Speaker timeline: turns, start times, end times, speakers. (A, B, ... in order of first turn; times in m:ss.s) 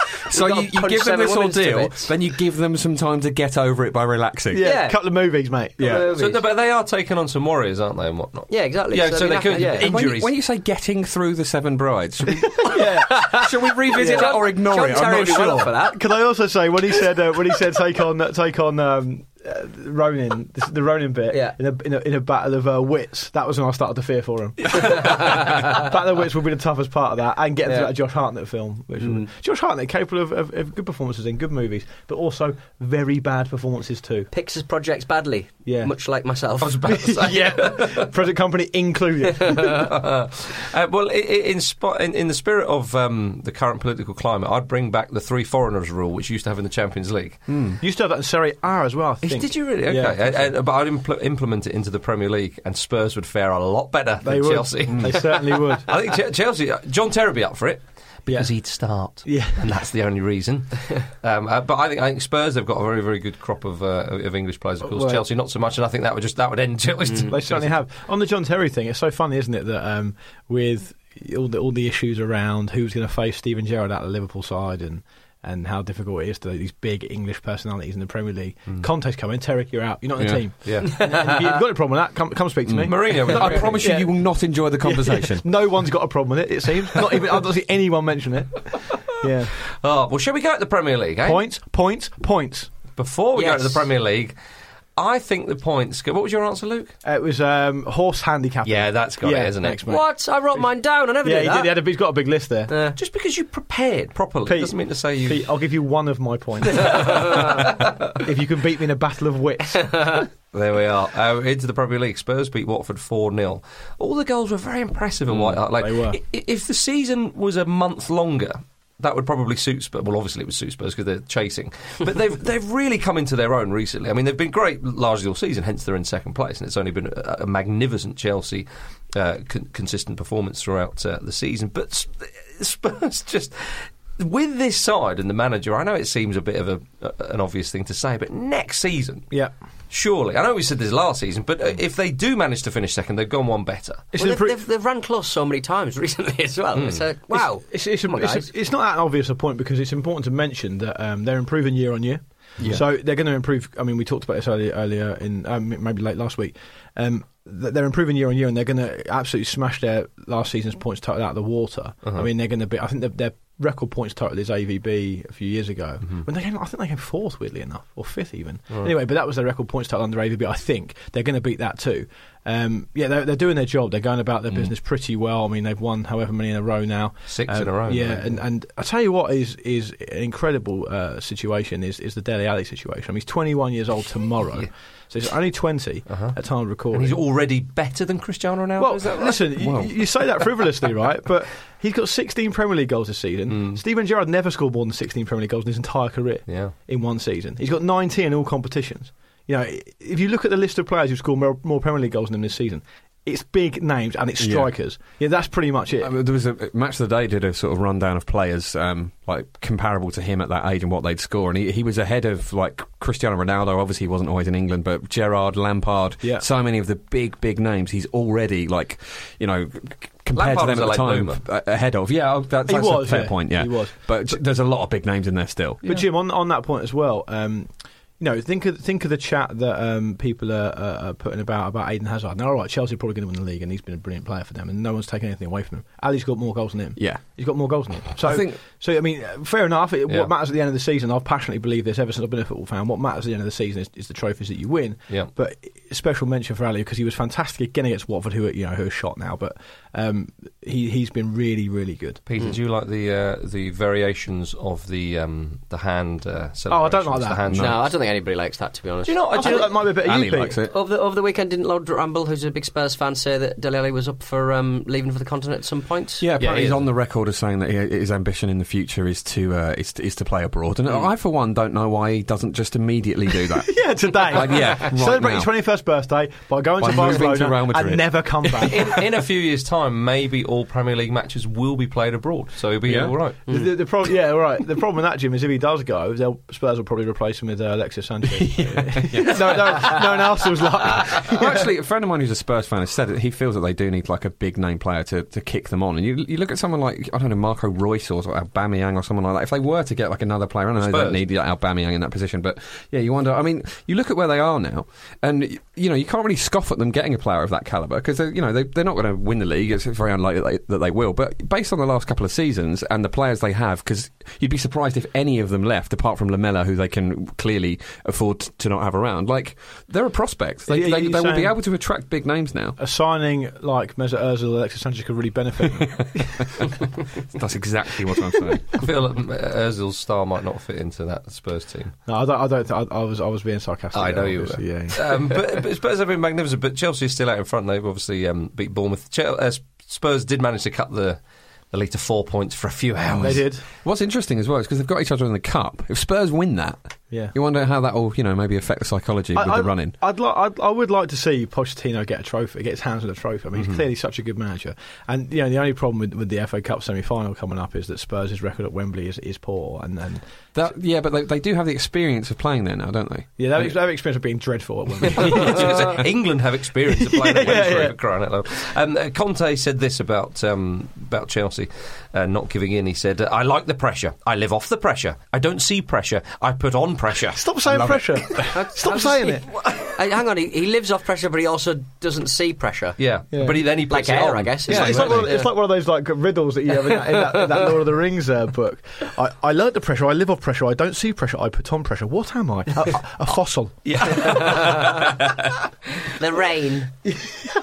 0:00.2-0:04.7 A
0:00.3-0:02.1 B
0:04.5-0:06.0 C
0:04.6-0:05.0 B
0:05.8-0:06.4 B
0:05.8-0:06.1 A
0:06.1-0:10.3 D
0:08.5-0:09.9 B
0:09.6-0:15.7 A
0:12.6-0:13.3 C
0:13.0-0:16.0 B
0:13.9-0:14.4 C
0:15.8-0:34.3 C
0:24.8-0:25.8 B
0:29.0-0:29.3 B
0:34.3-0:36.8 B
0:35.6-0:35.9 C
0:36.6-0:38.1 D
0:36.9-0:39.9 C
0:39.6-0:47.4 D
0:47.5-0:47.8 A
0:47.8-0:50.5 C
0:49.2-1:07.8 D
0:54.2-0:55.9 C
0:54.9-0:55.3 A
0:58.2-0:59.7 C
1:04.8-1:05.2 C
1:07.2-1:24.2 C
1:20.6-1:21.0 D
1:20.8-1:21.4 B
1:22.7-1:25.4 A
1:22.8-1:23.8 D
1:24.8-1:29.6 C
1:29.7-1:31.4 D
1:31.2-1:32.7 C
1:33.0-1:34.3 D
1:33.4-1:33.8 B
1:35.0-1:36.9 D
1:37.0-1:40.6 C
1:38.6-1:39.9 D
1:39.8-1:41.8 B
1:41.2-1:42.7 C
1:42.7-1:43.0 B
1:43.0-1:45.5 D
1:44.4-1:50.2 C
1:46.7-1:48.1 D
1:46.9-1:47.6 B
1:49.8-1:50.2 B
1:50.5-2:19.3 D
1:55.3-1:56.2 C
2:19.9-2:24.0 D
2:24.1-2:24.6 C
2:24.1-2:28.5 B
2:26.7-2:27.0 D
2:27.3-3:07.2 C
2:57.3-2:58.4 D
3:06.1-3:06.3 D
3:06.9-3:09.5 D
3:08.8-3:26.1 C
3:09.6-3:09.9 A
3:13.5-3:13.8 D
3:16.5-3:16.7 D
3:24.4-3:24.7 A
3:26.0-3:45.8 A
3:40.3-3:41.4 D
3:42.6-3:44.3 C
3:45.8-4:12.2 C
3:57.0-3:57.4 A
3:58.2-3:58.6 A
4:12.3-4:17.8 D
4:16.7-4:17.4 C
4:17.5-4:17.8 A
4:17.6-4:19.6 B
4:19.0-4:19.7 D
4:19.3-4:20.6 C
4:20.0-4:20.7 A
4:20.7-4:26.2 B
4:26.2-4:35.5 A
4:26.4-4:26.9 D
4:33.7-4:38.9 C
4:36.8-4:39.0 A
4:38.6-4:43.4 D
4:42.8-4:43.1 A
4:43.5-4:51.6 C
4:48.3-4:50.2 A
4:50.8-5:22.8 A
5:00.8-5:01.2 D
5:20.7-5:21.6 C
5:22.8-5:26.2 C
5:25.8-5:28.8 A
5:28.8-5:31.9 D
5:32.1-5:35.3 C
5:33.9-5:41.2 D
5:41.7-5:43.4 D
5:43.1-5:49.9 A
5:43.2-5:43.6 C
5:49.3-6:00.2 C
6:00.5-6:03.7 A
6:03.4-6:05.9 C
6:05.1-6:05.4 A
6:05.2-6:17.4 D
6:07.0-6:07.9 C
6:17.3-6:19.5 C
6:17.7-6:18.4 A
6:18.5-6:23.0 B
6:23.0-6:25.3 D
6:23.3-6:23.6 C
6:23.9-6:25.5 B
6:24.7-6:34.4 C
6:24.7-6:25.2 A
6:27.1-6:27.6 B
6:33.8-6:35.5 D
6:34.3-6:35.0 B
6:36.1-6:36.9 B